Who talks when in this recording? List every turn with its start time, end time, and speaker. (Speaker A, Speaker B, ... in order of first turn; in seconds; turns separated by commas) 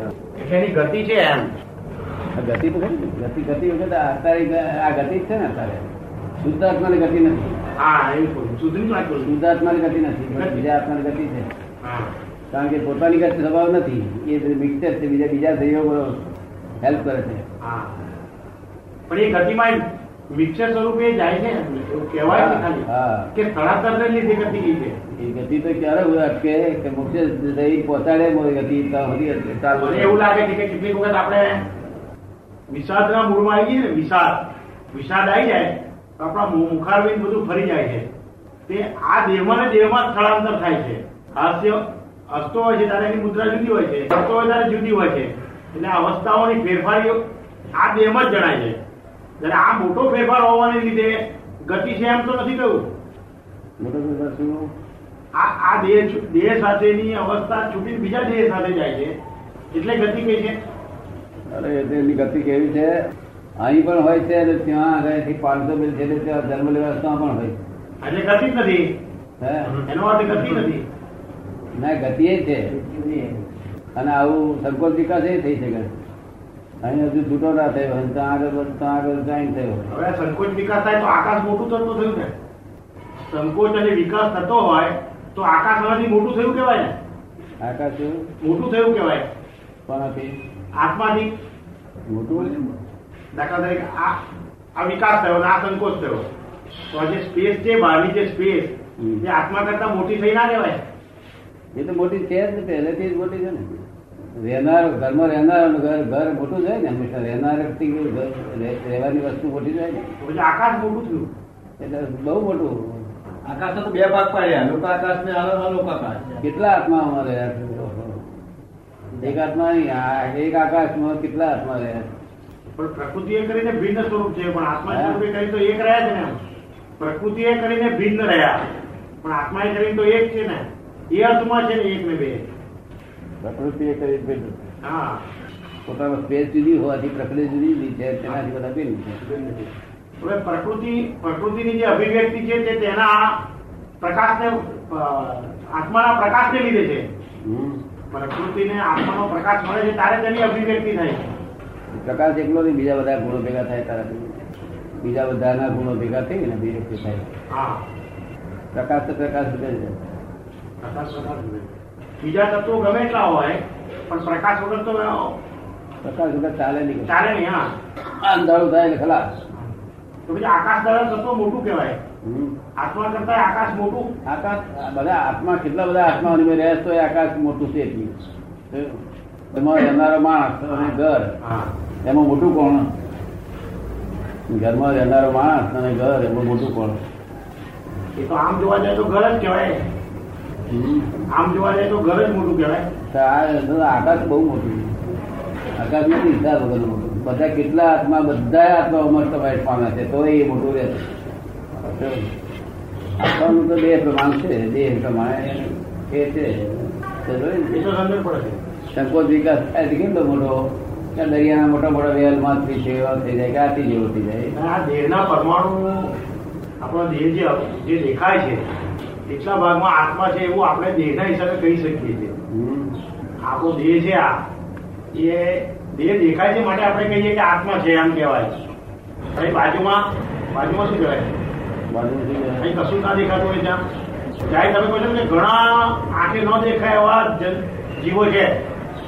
Speaker A: 0.4-1.5, Speaker B: 2.3-5.9, Speaker B: 6.4-7.6, Speaker A: 7.8-9.3, Speaker B: 9.2-11.5, Speaker A: 10.3-10.7, Speaker A: 11.8-12.1, Speaker B: 12.5-16.2, Speaker B: 16.8-17.4, Speaker A: 17.6-18.0, Speaker A: 19.1-25.0, Speaker B: 22.2-23.3, Speaker B: 25.1-30.2, Speaker A: 29.8-31.6, Speaker A: 32.7-38.1, Speaker A: 38.7-47.2, Speaker A: 47.8-48.8, Speaker A: 49.4-52.9, Speaker B: 53.8-54.7, Speaker A: 55.4-59.1, Speaker A: 59.7-60.6, Speaker B: 61.5-63.0, Speaker B: 63.6-67.6, Speaker A: 68.0-68.9, Speaker B: 69.4-69.8, Speaker A: 69.8-70.8, Speaker B: 71.8-72.8, Speaker B: 74.0-76.0, Speaker B: 76.8-80.0, Speaker A: 79.9-82.3, Speaker A: 83.3-87.0, Speaker B: 87.6-88.3, Speaker A: 88.4-89.3, Speaker B: 89.9-90.3, Speaker A: 90.7-91.3, Speaker B: 92.1-92.6, Speaker A: 93.3-94.2, Speaker A: 94.8-96.3, Speaker A: 96.9-100.8, Speaker B: 99.0-99.2, Speaker B: 101.7-110.1, Speaker A: 110.2-111.3, Speaker B: 111.8-113.1, Speaker C: 113.4-116.4, Speaker B: 116.4-118.3, Speaker B: 119.2-122.1, Speaker A: 122.8-126.4, Speaker B: 124.9-125.2, Speaker A: 127.0-128.7, Speaker A: 129.2-132.4, Speaker B: 133.4-134.7, Speaker A: 134.8-135.3, Speaker B: 135.9-139.2, Speaker A: 139.2-143.4, Speaker A: 144.0-147.1, Speaker B: 147.4-147.8, Speaker A: 148.1-151.3, Speaker B: 151.9-154.4, Speaker B: 155.0-157.3, Speaker A: 157.5-157.8, Speaker B: 158.7-160.0, Speaker A: 160.8-165.4, Speaker B: 166.0-167.2, Speaker A: 167.1-167.8, Speaker B: 168.0-169.4, Speaker A: 170.3-172.0, Speaker B: 172.2-172.6, Speaker A: 172.8-174.1, Speaker B: 174.2-181.3, Speaker A: 180.7-181.7, Speaker B: 182.0-182.9, Speaker B: 184.5-187.0, Speaker A: 188.2-189.9, Speaker B: 190.7-191.2, Speaker A: 191.3-192.9, Speaker B: 193.1-195.0, Speaker B: 195.8-201.1, Speaker B: 201.8-202.3, Speaker B: 203.2-207.9, Speaker A: 207.7-208.6, Speaker B: 208.9-214.6, Speaker A: 214.5-216.1, Speaker A: 216.8-218.7, Speaker A: 219.3-222.4, Speaker B: 222.5-223.0, Speaker A: 223.4-224.4, Speaker A: 225.1-228.6, Speaker A: 229.3-231.3, Speaker B: 231.9-232.7, Speaker A: 232.6-233.8, Speaker A: 234.5-238.6